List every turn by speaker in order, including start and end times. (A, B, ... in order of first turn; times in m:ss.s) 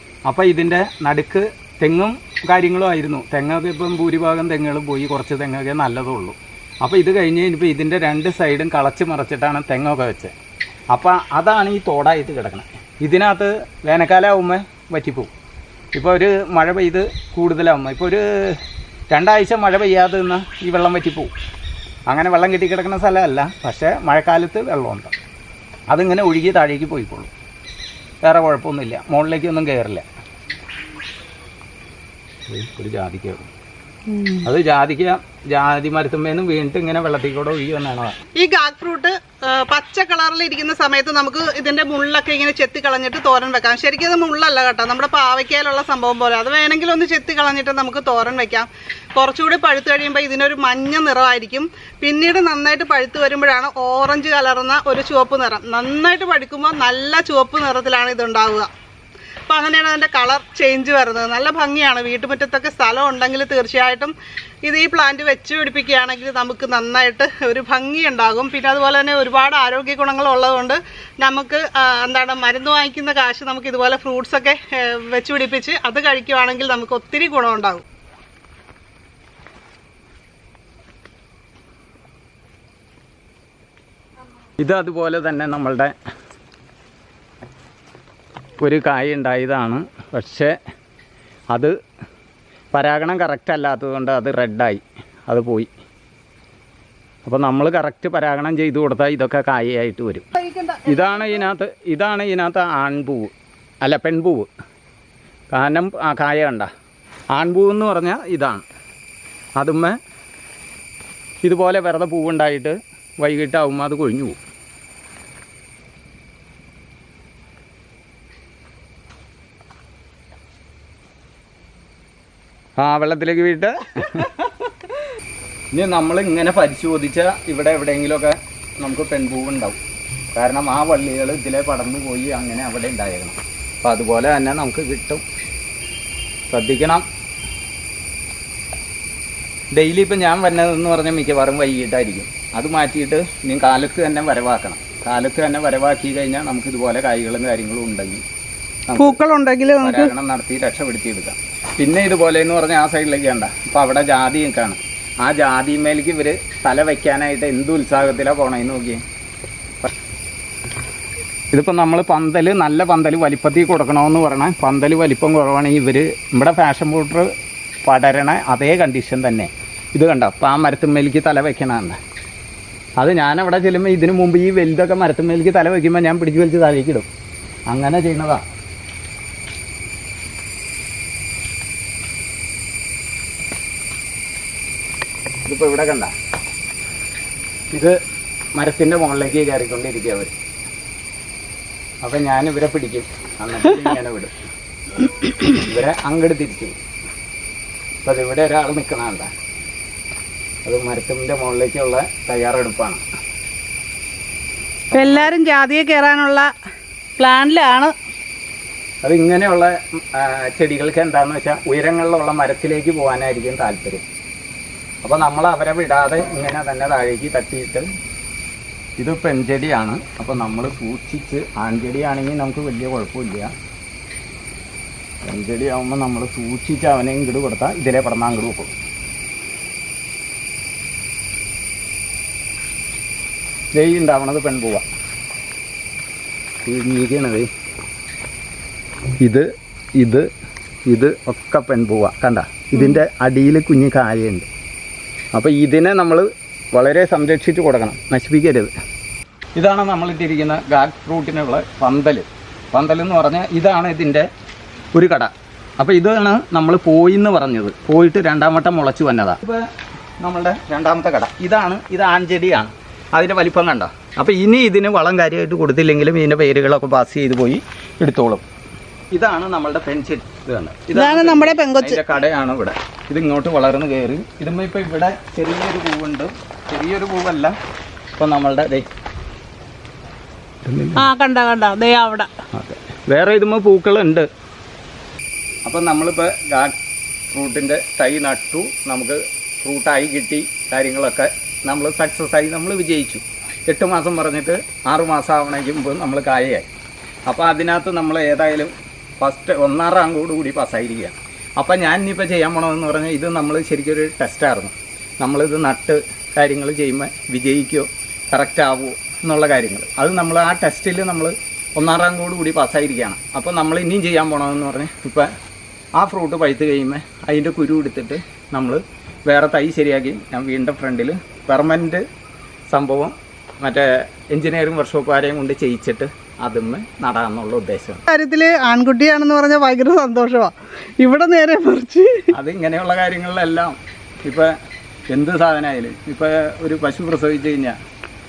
0:00.2-0:10.3 A
0:10.9-0:15.3 A
0:15.9-0:21.3 A
0:22.1-0:25.1 A
0:25.9-0:27.3 A
0:28.2-0:30.0 A
0:32.5-0:33.5 A
0:34.1-0:34.4 B
0:34.4-0:38.2 A
0:38.4-0:58.7 B
0:59.5-1:04.1 B
1:04.6-1:17.8 B
1:24.6-1:25.9 A
1:28.6-1:30.6 A
1:32.7-1:35.7 A
1:37.2-1:40.3 A
1:40.4-1:41.5 B
1:40.9-1:44.5 A
1:45.5-1:46.7 A
1:47.3-1:48.6 A
1:49.6-1:50.0 A
1:51.4-1:54.4 A
2:02.8-2:04.4 A
2:05.7-2:09.8 A
2:10.3-2:15.2 A
2:16.5-2:17.0 A
2:19.7-2:28.2 A
2:28.9-2:29.2 A
2:29.0-2:30.1 B
2:29.8-2:39.0 A
2:41.5-2:47.3 A
2:47.8-2:52.0 A
2:53.0-2:57.1 A
2:57.7-2:58.4 A
3:05.4-3:06.1 A
3:07.7-3:08.0 A
3:08.5-3:10.3 A
3:12.0-3:14.3 A
3:15.5-3:16.7 A
3:18.0-3:19.3 A
3:20.6-3:23.0 A
3:24.9-3:25.3 A
3:24.9-3:26.5 B
3:27.2-3:27.9 B
3:29.0-3:34.0 A
3:35.0-3:37.9 A
3:39.0-3:43.5 A
3:45.2-3:48.7 A
3:53.7-3:54.8 A
3:56.6-3:57.5 A
3:59.2-4:00.3 A
4:00.9-4:04.5 A
4:05.3-4:08.7 A
4:09.6-4:14.3 A
4:14.9-4:19.6 A
4:20.2-4:28.4 A
4:29.1-4:37.5 A
4:30.9-4:32.0 B
4:38.2-4:38.9 A
4:40.6-4:41.1 A
4:41.0-4:42.3 B
4:42.5-4:44.3 A
4:45.6-4:46.7 A
4:47.3-4:56.7 A
4:57.3-5:15.3 A
5:16.0-5:22.0 A
5:22.7-5:28.0 A
5:28.1-5:32.3 B
5:32.3-5:34.5 A
5:35.1-5:37.8 A